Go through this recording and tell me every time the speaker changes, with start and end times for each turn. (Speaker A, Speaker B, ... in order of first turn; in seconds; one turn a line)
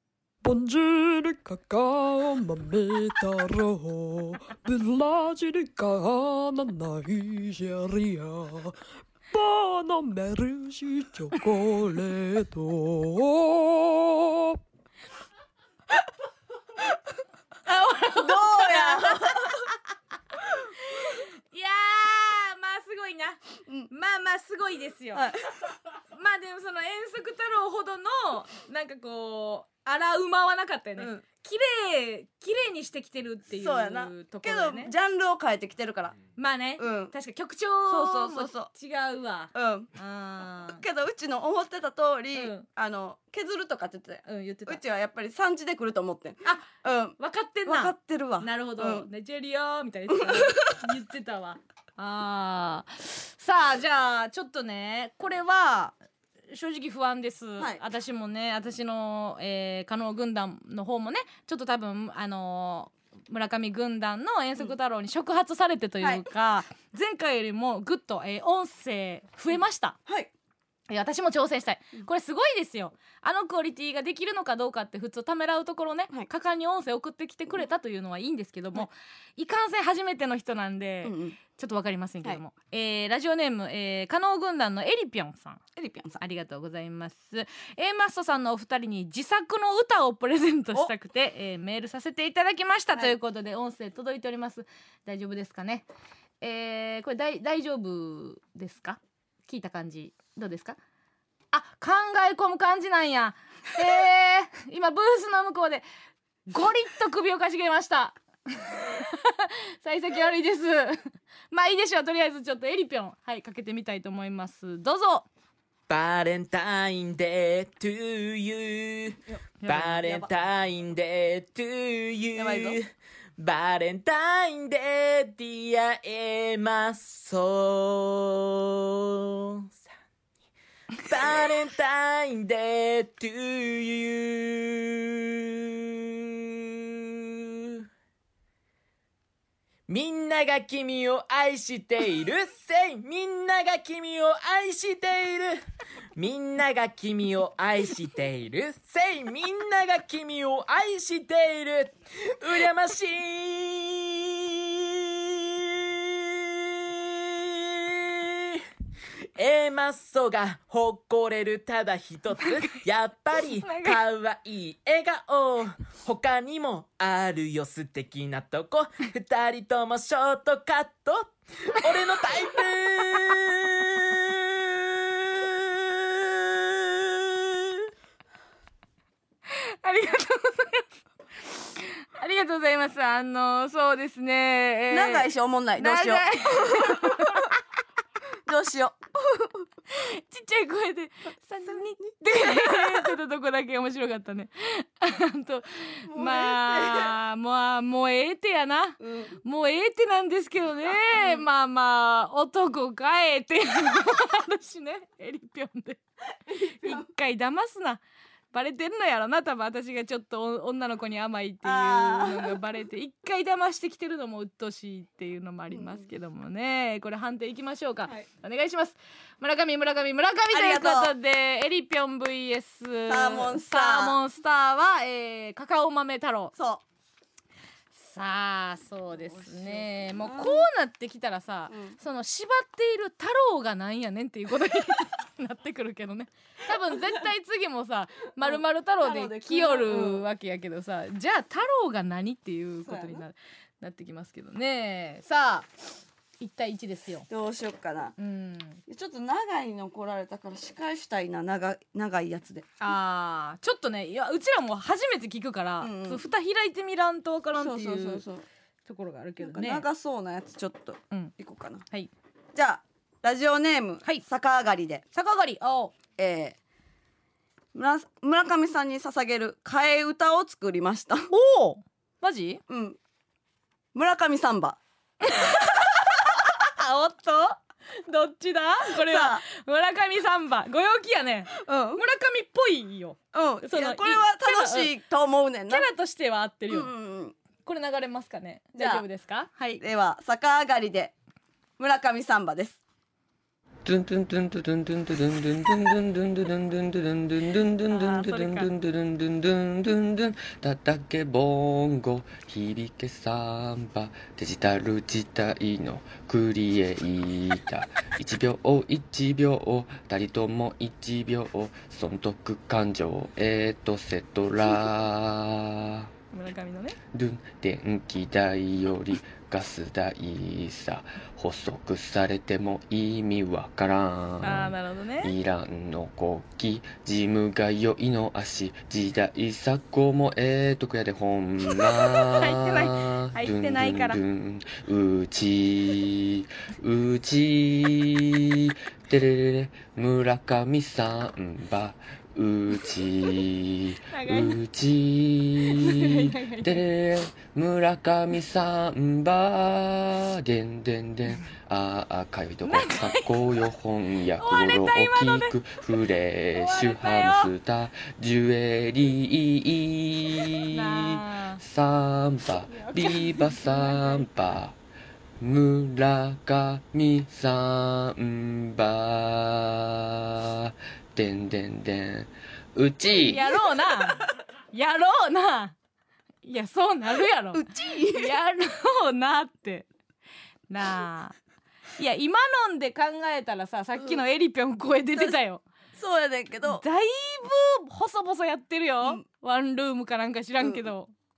Speaker A: 0.4-8.8
Speaker A: 9.3-14.6
Speaker B: 17.7-19.7
Speaker C: 18.1-19.7
Speaker B: 20.9-23.4
Speaker B: 23.9-25.3
Speaker C: 25.1-25.5
Speaker B: 26.1-34.9
Speaker C: 31.0-31.2
Speaker C: 33.5-36.2
Speaker B: 36.4-40.8
Speaker C: 36.8-37.1
Speaker C: 37.9-38.7
Speaker C: 39.5-39.9
Speaker C: 40.8-49.1
Speaker B: 42.3-42.7
Speaker B: 44.3-44.8
Speaker B: 46.4-56.0
Speaker C: 50.1-50.8
Speaker B: 56.5-70.0
Speaker C: 66.0-66.3
Speaker B: 70.9-85.6
Speaker C: 81.0-81.4
Speaker C: 85.8-86.2
Speaker B: 86.2-95.9
Speaker B: 96.4-100.8
Speaker B: 101.5-105.8
Speaker B: 106.5-111.0
Speaker B: 111.5-115.3
Speaker D: 115.9-129.9
Speaker C: 119.3-120.3
Speaker B: 119.6-120.0
Speaker C: 122.3-122.8
Speaker D: 131.0-137.8
Speaker D: 139.9-145.6
Speaker D: 146.2-158.6
Speaker D: 159.4-177.9
Speaker B: 163.6-164.0
Speaker B: 179.5-180.9
Speaker B: 181.6-187.4
Speaker C: 184.9-187.5
Speaker C: 188.4-189.7
Speaker B: 189.9-206.0
Speaker C: 192.4-193.0
Speaker C: 196.1-197.2
Speaker C: 199.0-199.4
Speaker C: 200.9-201.4
Speaker C: 206.5-207.1
Speaker B: 206.8-208.0
Speaker B: 208.5-226.6
Speaker C: 211.6-212.6
Speaker C: 215.7-216.1
Speaker C: 220.5-221.1
Speaker C: 223.1-224.2
Speaker C: 226.6-226.8
Speaker B: 227.9-245.7
Speaker C: 229.2-230.7
Speaker C: 231.7-232.0
Speaker C: 238.4-240.3
Speaker C: 242.8-243.3
Speaker B: 246.4-247.3
Speaker C: 247.3-248.2
Speaker B: 248.2-248.8
Speaker C: 248.9-252.7
Speaker B: 252.8-258.2
Speaker C: 255.8-256.2
Speaker C: 257.6-258.4
Speaker B: 258.9-259.9
Speaker C: 259.4-261.8
Speaker C: 262.6-265.0
Speaker B: 265.1-265.9
Speaker C: 266.2-266.6
Speaker C: 267.7-271.3
Speaker B: 271.3-272.6
Speaker C: 272.7-273.0
Speaker C: 273.9-274.8
Speaker B: 275.2-284.9
Speaker C: 278.9-279.4
Speaker C: 281.6-282.0
Speaker C: 283.3-285.9
Speaker B: 285.7-286.9
Speaker C: 286.7-287.4
Speaker B: 287.6-289.8
Speaker C: 288.8-289.1
Speaker C: 289.8-291.1
Speaker C: 291.8-292.8
Speaker E: 293.9-316.1
Speaker B: 297.9-298.7
Speaker B: 316.3-317.0
Speaker E: 317.1-364.8
Speaker B: 324.4-325.3
Speaker B: 332.3-334.2
Speaker B: 344.1-344.6
Speaker B: 345.8-346.8
Speaker B: 352.6-353.3
Speaker B: 354.4-355.6
Speaker B: 356.6-357.5
Speaker B: 360.6-361.6
Speaker B: 362.7-364.3
Speaker E: 365.4-373.6
Speaker B: 373.2-375.8
Speaker B: 376.4-379.9
Speaker C: 377.5-378.3
Speaker B: 380.7-381.4
Speaker B: 382.0-385.6
Speaker C: 385.9-386.8
Speaker B: 386.7-391.1